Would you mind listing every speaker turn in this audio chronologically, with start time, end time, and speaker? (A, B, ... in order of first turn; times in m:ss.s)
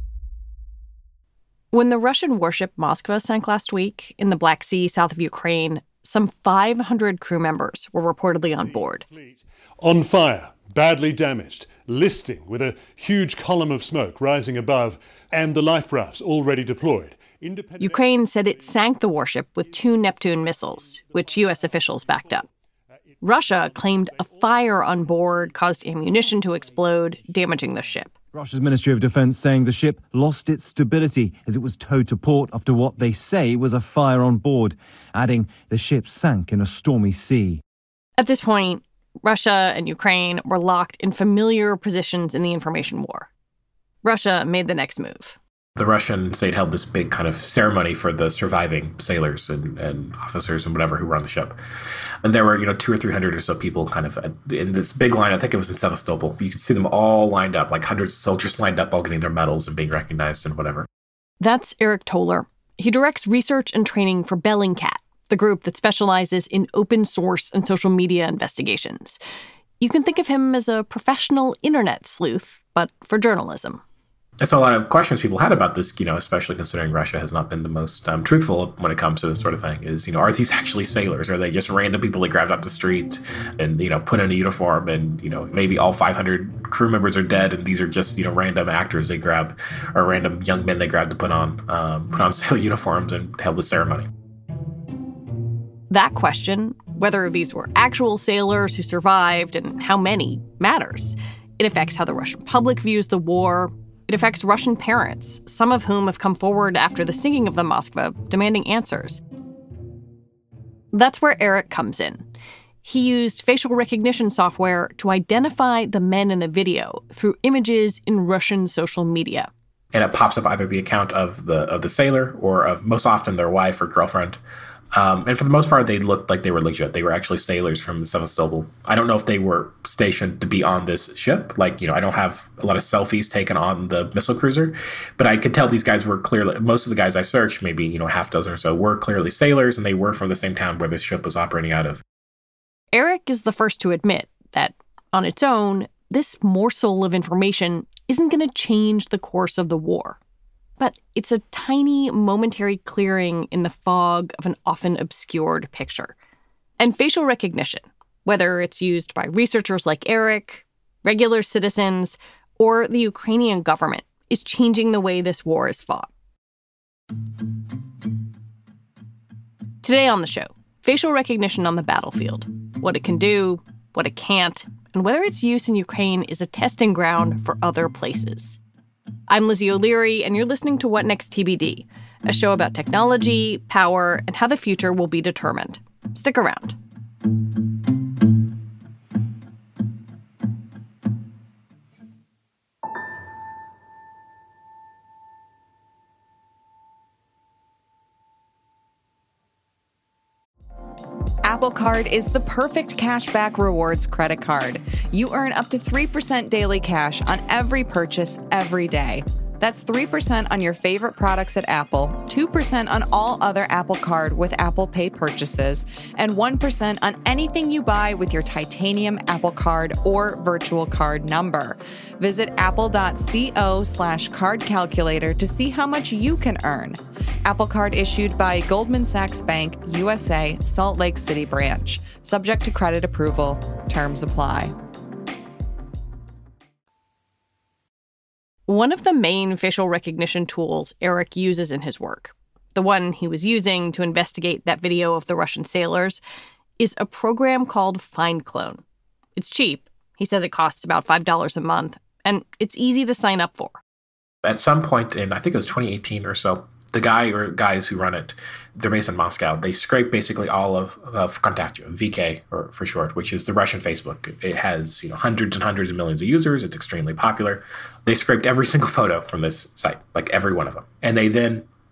0:01.7-0:09.0 A
0:08.5-0:18.7 B
0:17.8-0:22.5 A
0:20.8-0:21.4 B
0:21.9-0:22.3 B
0:23.1-0:25.6 B
0:23.2-0:28.1 A
0:28.3-0:37.6 C
0:38.2-0:43.3 A
0:44.0-0:45.4 A
0:45.8-0:51.6 D
0:52.2-1:00.9 D
1:01.4-1:09.2 A
1:09.8-1:13.8 A
1:14.4-1:34.1 D
1:35.9-1:49.2 A
1:50.9-1:52.2 A
1:52.8-1:59.5 A
1:59.9-2:04.4 D
2:04.9-2:22.0 D
2:22.9-2:30.2 A
2:30.8-2:36.1 A
2:36.8-2:46.1 A
2:49.8-2:58.6 A
2:59.3-3:06.8 A
3:21.4-3:54.7 E
3:58.7-4:06.2 A
4:06.8-4:08.8 A
4:09.4-4:13.8 A
4:14.4-4:31.6 D